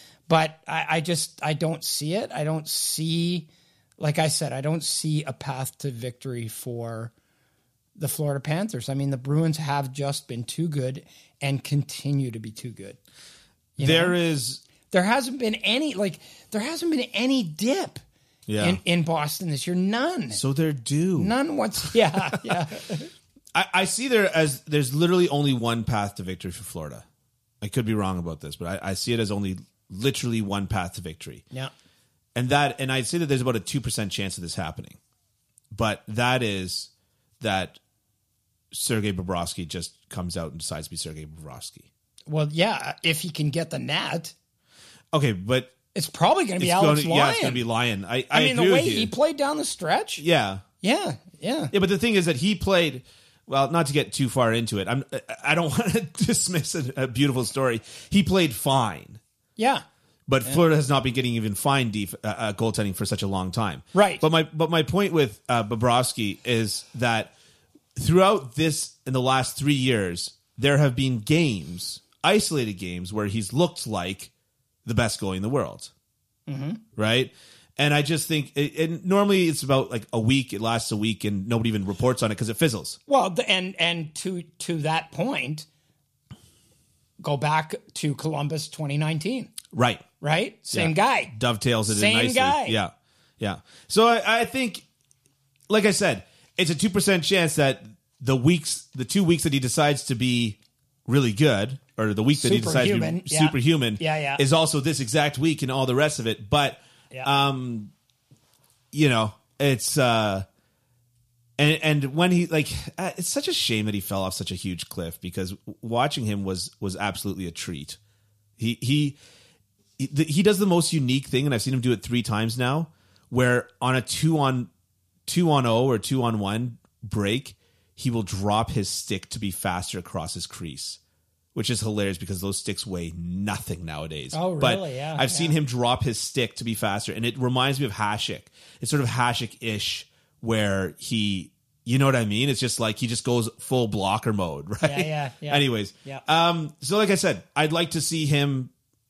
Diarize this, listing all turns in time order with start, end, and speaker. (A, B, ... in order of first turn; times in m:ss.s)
0:00.3-0:07.1 A
0:08.0-0:13.0 A
0:13.8-0:14.2 A
0:13.8-0:14.6 B
0:14.9-0:18.0 A
0:18.5-0:18.8 B
0:18.6-0:20.4 A
0:20.3-0:21.4 B
0:21.2-0:23.1 A
0:23.5-0:27.0 B
0:27.6-0:31.4 B
0:32.3-0:35.0 B
0:35.7-0:37.8 B
0:38.7-0:41.9 B
0:42.3-0:44.3 A
0:45.1-0:45.7 B
0:45.9-0:47.6 A
0:46.6-0:49.1 B
0:48.3-0:50.2 A
0:50.2-0:50.6 B
0:50.8-0:51.7 A
0:51.7-0:59.2 B
0:59.6-0:59.8 A
1:00.3-1:07.3 B
1:03.9-1:04.2 A
1:08.0-1:14.3 B
1:14.8-1:15.9 B
1:16.5-1:16.8 A
1:17.0-1:23.0 B
1:23.1-1:25.7 A
1:27.2-1:29.5 A
1:29.7-1:30.0 B
1:30.2-1:31.3 A
1:30.7-1:34.8 B
1:31.8-1:32.8 A
1:35.7-1:47.9 B
1:42.3-1:44.4 A
1:48.9-1:50.4 B
1:51.6-1:58.0 B
1:58.6-1:59.2 B
2:00.0-2:04.7 B
2:05.3-2:11.0 B
2:11.5-2:28.7 B
2:14.3-2:15.6 A
2:24.8-2:26.2 A